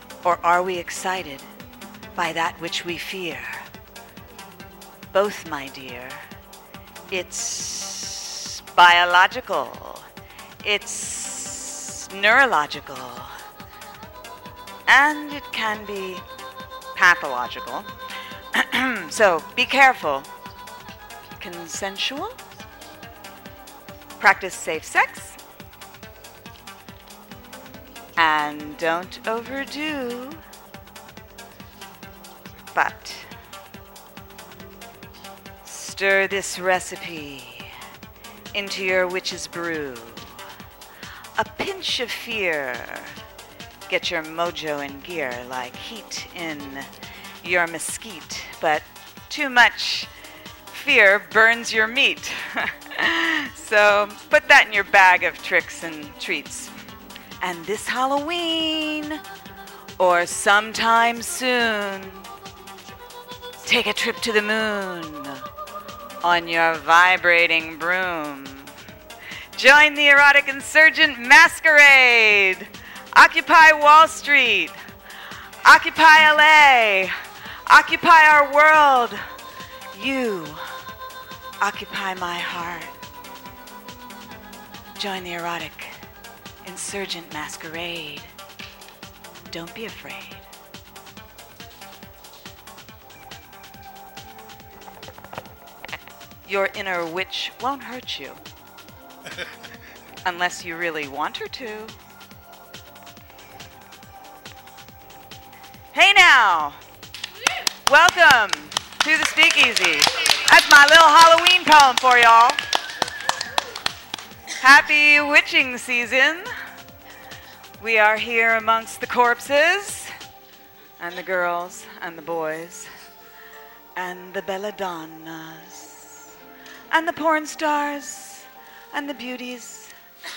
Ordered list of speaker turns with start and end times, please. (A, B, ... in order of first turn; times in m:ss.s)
0:00.2-0:01.5 A
0:02.2-0:03.7 A
0:05.1-0:06.2 A
0:07.1-0:10.1 A
0:10.6-0:13.3 A
0:14.9-0:16.2 A
0:17.0-0:17.9 A
0:18.5-0:20.3 A
0:21.4-0:22.4 A
0:24.2-0:25.4 A
0:28.2-0:30.4 A
0:32.7-0:33.2 A
0:35.6-0:37.7 A
0:38.5-0:40.4 A
0:41.4-0:43.2 A
0:43.9-0:46.9 A
0:47.4-0:50.1 A
0:50.7-0:56.7 A
0:57.4-0:59.2 A
1:00.0-1:02.3 A
1:03.6-1:05.4 A
1:06.2-1:08.7 A
1:09.6-1:14.8 A
1:15.6-1:17.1 A
1:17.7-1:19.2 A
1:19.9-1:20.6 A
1:21.6-1:22.9 A
1:25.0-1:26.0 A
1:26.6-1:28.3 A
1:29.5-1:30.4 A
1:36.5-1:38.4 A
1:40.2-1:41.9 A
1:45.9-1:46.8 A
1:47.9-1:52.6 A
1:54.6-1:56.5 A
1:57.8-2:00.1 A
2:01.0-2:02.9 A
2:04.0-2:06.3 A
2:06.9-2:09.9 A